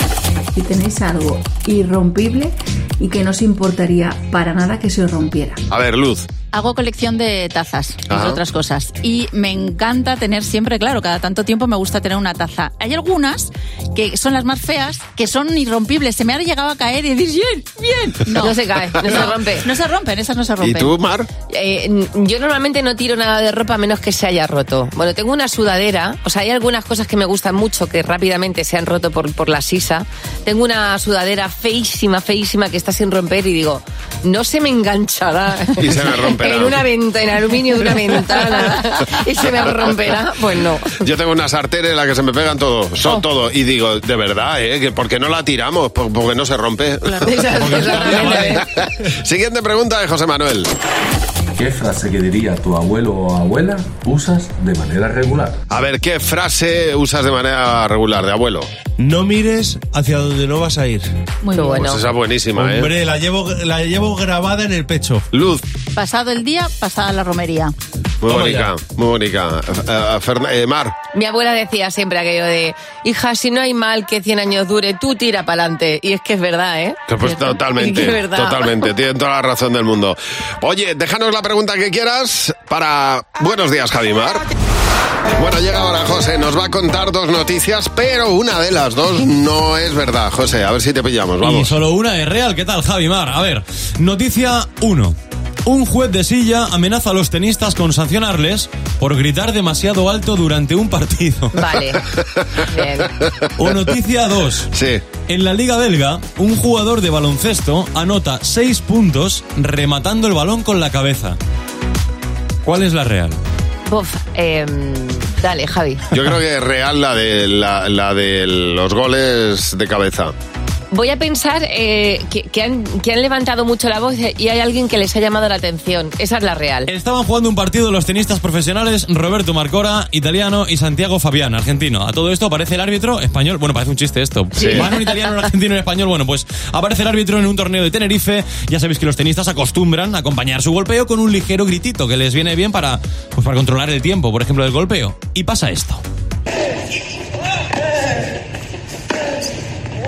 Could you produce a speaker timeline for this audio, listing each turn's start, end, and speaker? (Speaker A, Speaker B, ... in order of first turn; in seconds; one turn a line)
Speaker A: 0.5-5.6
Speaker B: 5.7-6.3
Speaker C: 6.5-20.9
Speaker B: 8.1-8.4
Speaker D: 18.4-19.6
Speaker B: 20.6-21.3
Speaker D: 21.5-41.0
Speaker B: 35.8-36.8
Speaker B: 41.0-50.7
Speaker D: 47.1-48.6
Speaker E: 47.8-48.6
Speaker F: 51.6-55.5
Speaker B: 55.7-58.7
Speaker E: 59.0-61.1
Speaker C: 61.4-61.8
Speaker D: 61.5-62.0
Speaker B: 61.7-62.9
Speaker E: 62.5-65.2
Speaker B: 65.3-65.6
Speaker C: 66.0-67.7
Speaker B: 68.2-70.9
Speaker E: 68.2-68.7
Speaker D: 71.1-78.7
Speaker B: 77.1-84.4
Speaker B: 85.3-91.8
Speaker G: 91.4-101.5
Speaker D: 101.5-102.0
Speaker B: 102.2-102.5
Speaker D: 102.7-103.1
Speaker G: 103.6-104.7
Speaker B: 104.7-105.0
Speaker G: 105.3-111.4
Speaker G: 112.6-113.4
Speaker D: 113.9-116.0
Speaker B: 116.1-120.3
Speaker D: 120.9-126.9
Speaker G: 126.9-146.0
Speaker B: 134.6-134.9